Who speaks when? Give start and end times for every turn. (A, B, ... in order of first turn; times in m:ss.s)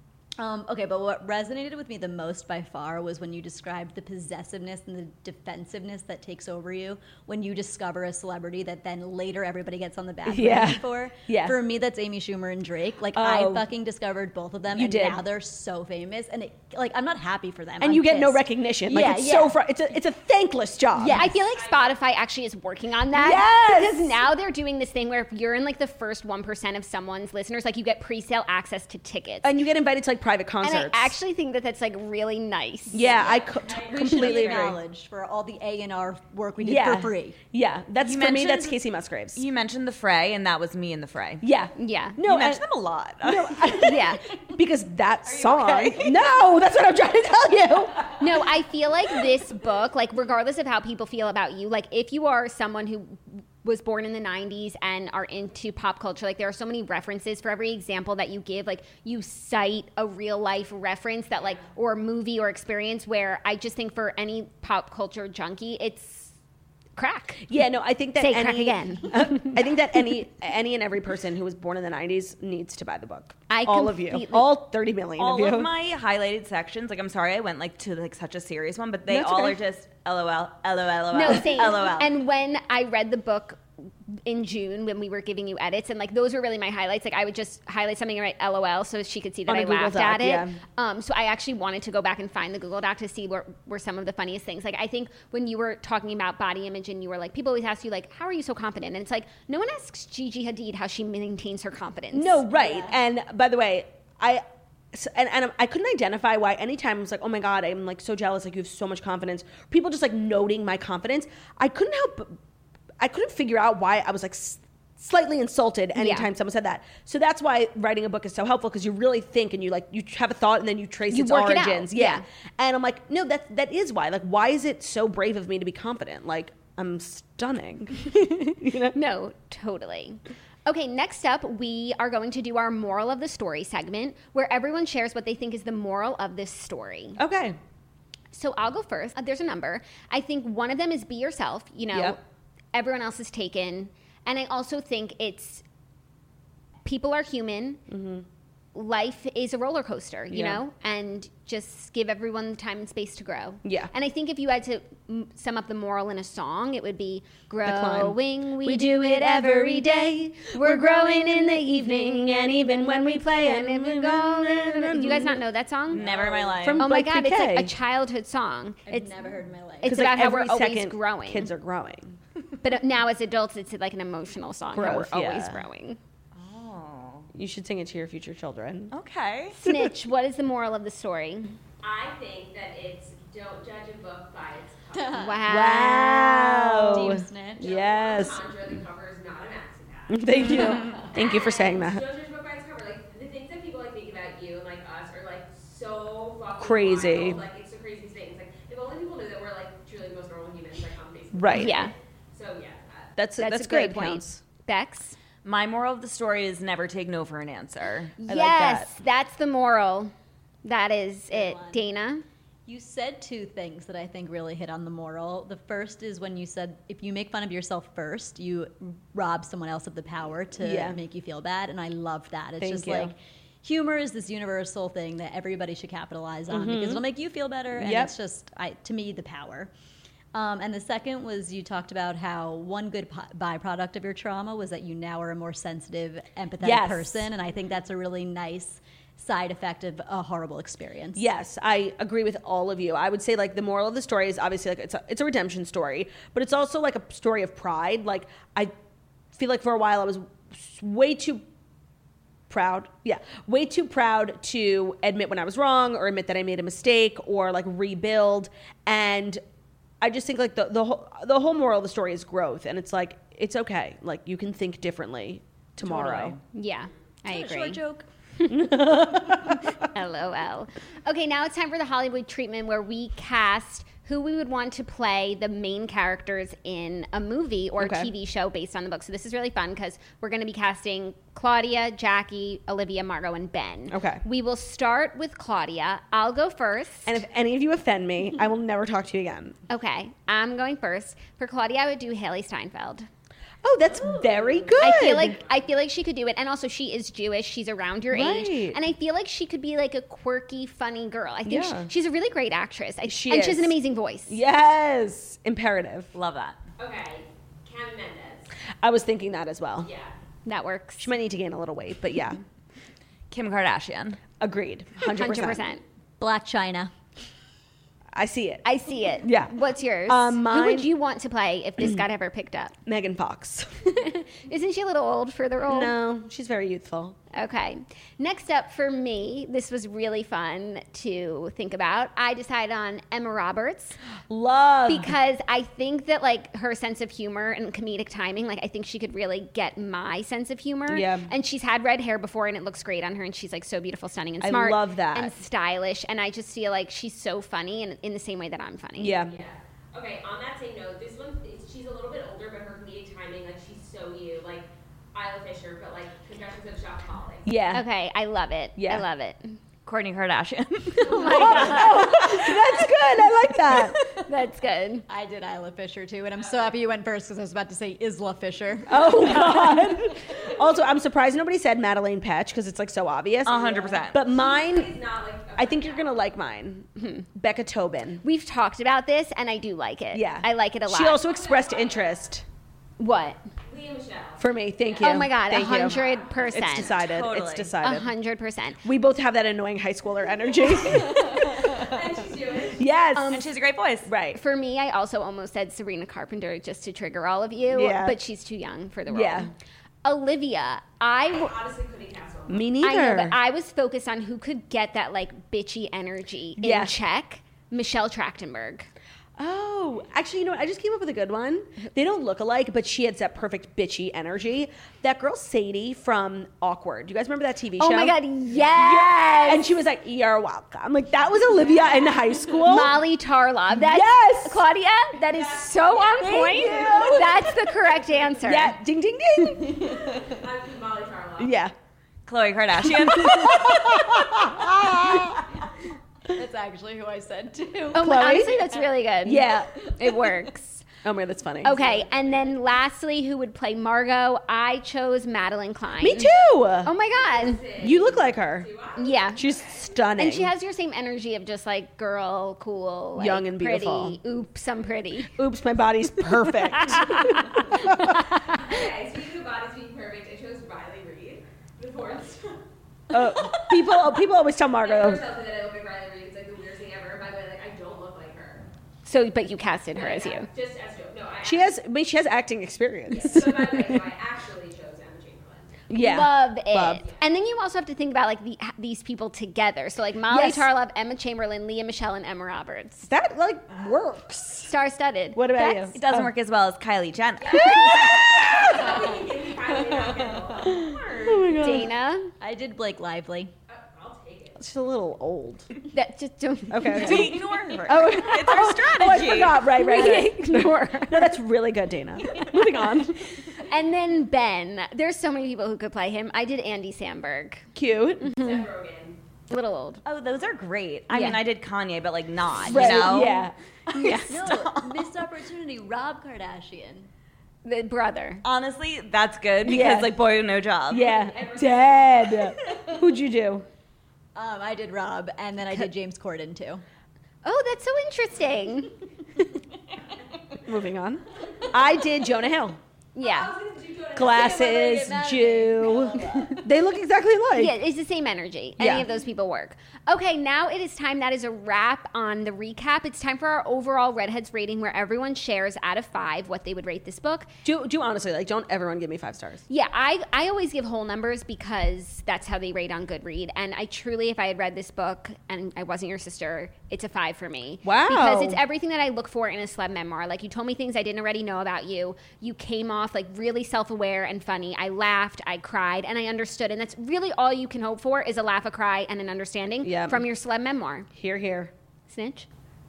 0:00.4-0:19.6 A
0:10.2-0:11.6 B
0:13.1-0:13.7 B
0:14.7-0:15.2 B
0:17.8-0:21.3 B
0:20.9-0:21.5 A
0:21.1-0:29.6 C
0:21.4-0:22.0 D
0:23.1-0:24.2 B
0:29.4-0:31.2 B
0:30.6-0:33.3 C
0:32.9-0:34.8 B
0:33.0-0:34.7 D
0:33.6-0:37.4 A
0:36.6-0:39.4 B
0:38.0-0:38.8 E
0:39.4-0:41.4 E
0:41.4-0:42.6 B
0:41.8-0:42.2 C
0:42.3-0:44.0 E
0:43.2-0:48.4 B
0:43.8-0:44.2 C
0:45.3-0:46.3 E
0:48.2-1:06.3 C
1:01.4-1:01.7 D
1:07.0-1:07.4 C
1:07.4-1:15.7 B
1:08.2-1:09.6 C
1:13.5-1:14.5 C
1:15.2-1:22.1 E
1:19.1-1:19.6 B
1:21.1-1:23.6 C
1:24.2-1:42.5 C
1:29.5-1:30.6 B
1:42.1-1:52.4 B
1:42.6-1:42.9 A
1:53.0-2:09.0 B
1:56.0-1:56.3 C
2:01.1-2:02.2 C
2:08.9-2:17.2 C
2:17.2-2:17.6 B
2:18.3-2:22.2 C
2:22.7-2:25.6 C
2:26.8-2:27.8 C
2:27.9-2:28.3 B
2:28.7-2:42.3 C
2:30.3-2:30.6 B
2:33.6-2:33.9 B
2:37.6-2:45.4 B
2:42.9-2:46.0 C
2:45.9-2:46.8 E
2:45.9-2:47.7 B
2:46.8-2:51.5 C
2:48.9-2:50.2 A
2:49.8-2:52.2 B
2:52.6-2:56.0 C
2:54.7-2:55.6 B
2:56.3-2:57.3 E
2:57.3-2:58.9 B
2:58.9-2:59.6 E
2:59.6-3:01.5 C
2:59.6-2:59.9 B
3:01.8-3:05.3 D
3:05.0-3:06.0 A
3:05.1-3:07.1 C
3:05.4-3:08.4 B
3:06.9-3:07.7 A
3:07.6-3:10.4 D
3:10.1-3:12.0 B
3:10.4-3:11.1 A
3:11.1-3:23.1 D
3:16.6-3:17.4 B
3:21.3-3:21.7 B
3:21.5-3:21.9 C
3:23.2-3:24.4 B
3:23.4-3:25.2 C
3:25.4-3:28.1 E
3:28.2-3:30.1 C
3:28.3-3:28.9 B
3:30.6-3:32.2 C
3:31.3-3:31.8 A
3:32.6-3:49.7 A
3:40.6-3:41.0 B
3:42.6-3:43.1 B
3:46.5-3:47.0 B
3:47.7-3:48.1 B
3:50.3-4:01.2 A
3:56.6-3:57.3 B
4:01.2-4:08.7 B
4:09.3-4:11.4 B
4:12.5-4:19.4 B
4:20.0-4:26.4 B
4:25.8-4:26.4 E
4:26.5-4:27.8 C
4:27.3-4:28.0 A
4:28.4-4:28.7 C
4:28.5-4:29.8 B
4:29.3-4:47.2 C
4:37.8-4:38.1 B
4:43.9-4:44.2 B
4:47.0-4:49.6 B
4:49.7-4:53.1 C
4:53.6-4:55.4 B
4:53.9-4:55.7 D
4:54.8-5:04.4 C
4:58.1-4:58.8 B
5:01.4-5:01.9 B
5:03.0-5:03.7 B
5:04.3-5:06.1 B
5:06.1-5:06.6 E
5:06.8-5:08.5 D
5:08.8-5:09.9 B
5:09.8-5:10.1 D
5:10.4-5:11.1 C
5:11.0-5:12.4 B
5:13.3-5:14.2 E
5:14.4-5:15.6 B
5:15.1-5:15.8 C
5:16.2-5:16.9 A
5:18.1-5:18.6 B
5:18.6-5:22.7 C
5:19.2-5:19.6 B
5:20.0-5:20.9 B
5:22.9-5:23.9 B
5:23.8-5:25.9 C
5:25.6-5:27.2 B
5:27.3-5:34.0 C
5:34.3-5:35.1 B
5:34.9-5:49.2 C
5:40.9-5:41.3 B
5:44.4-5:45.3 B
5:49.0-5:49.4 B
5:49.2-5:57.5 D
5:57.4-5:57.8 B
5:57.7-5:59.6 C
5:58.8-5:59.0 B
5:59.8-6:01.4 E
6:01.0-6:02.4 D
6:01.0-6:02.4 C
6:01.2-6:04.0 B
6:04.2-6:05.0 C
6:05.1-6:10.0 A
6:06.4-6:06.8 D
6:08.9-6:14.9 B
6:13.4-6:14.2 E
6:14.2-6:16.3 D
6:15.6-6:18.2 B
6:17.0-6:17.2 C
6:18.2-6:21.2 C
6:20.1-6:22.4 B
6:21.2-6:22.3 D
6:23.0-6:23.4 C
6:23.6-6:26.7 D
6:24.4-6:26.0 B
6:25.0-6:26.9 C
6:26.5-6:28.1 B
6:26.8-6:27.7 E
6:27.8-6:28.8 C
6:28.8-6:32.1 B
6:30.5-6:32.9 D
6:32.6-6:33.4 B
6:33.1-6:33.5 C
6:33.3-6:34.1 E
6:34.0-6:34.4 B
6:34.3-6:39.5 C
6:37.7-6:38.2 B
6:39.1-6:39.5 B
6:40.0-6:41.5 C
6:41.3-6:42.7 D
6:42.5-6:43.4 B
6:42.8-6:48.9 C
6:46.6-6:47.0 B
6:49.4-7:03.0 B
6:57.8-6:59.7 C
7:01.6-7:02.6 D
7:02.6-7:08.8 C
7:03.7-7:04.6 B
7:05.2-7:08.3 D
7:06.1-7:07.4 B
7:08.4-7:10.2 B
7:09.7-7:11.6 D
7:11.4-7:11.7 B
7:12.3-7:14.0 E
7:12.8-7:15.5 B
7:16.3-7:18.8 A
7:17.9-7:20.8 C
7:18.0-7:18.6 B
7:19.2-7:20.2 B
7:21.0-7:22.0 B
7:21.6-7:26.3 C
7:21.8-7:22.6 D
7:26.0-7:26.9 B
7:26.8-7:27.6 C
7:27.1-7:30.0 D
7:27.8-7:28.7 B
7:29.0-7:29.4 C
7:29.4-7:30.5 B
7:30.2-7:35.4 C
7:33.2-7:34.2 B
7:35.4-7:38.5 B
7:38.4-7:42.6 D
7:43.1-7:45.2 B
7:43.2-7:44.0 D
7:44.8-7:48.7 D
7:49.0-7:50.5 C
7:49.9-7:51.7 D
7:51.4-7:54.0 B
7:53.1-7:55.8 D
7:55.9-7:57.0 B
7:55.9-8:03.1 C
7:57.0-7:57.3 D
8:00.3-8:00.7 B
8:03.0-8:04.7 B
8:04.7-8:06.0 C
8:05.3-8:06.3 B
8:06.0-8:07.8 E
8:07.4-8:11.7 D
8:07.6-8:08.1 C
8:07.7-8:08.8 B
8:10.6-8:11.9 B
8:11.6-8:12.3 C
8:12.4-8:13.5 A
8:13.7-8:14.6 D
8:14.6-8:15.7 B
8:15.9-8:17.4 C
8:16.7-8:23.4 B
8:16.8-8:19.7 E
8:19.8-8:21.3 C
8:23.6-8:27.7 C
8:27.7-8:28.3 B
8:28.2-8:28.6 C
8:28.3-8:29.2 D
8:29.5-8:30.0 C
8:30.0-8:33.4 E
8:31.1-8:31.4 C
8:32.6-8:34.5 B
8:33.9-8:34.4 C
8:34.3-8:37.1 A
8:34.5-8:35.0 E
8:37.6-8:38.4 C
8:38.4-8:41.1 E
8:39.6-8:40.2 B
8:40.9-8:42.9 D
8:40.9-8:43.6 B
8:44.3-8:46.8 A
8:47.4-8:48.9 C
8:50.6-8:52.8 B
8:53.1-8:53.5 C
8:53.2-8:54.7 D
8:54.1-8:57.7 B
8:54.2-8:56.6 A
8:57.5-9:07.5 C
8:58.8-8:59.0 B
9:07.6-9:09.6 B
9:09.7-9:31.1 C
9:17.8-9:18.6 B
9:29.8-9:30.3 B
9:31.1-9:31.7 B
9:32.1-9:32.5 C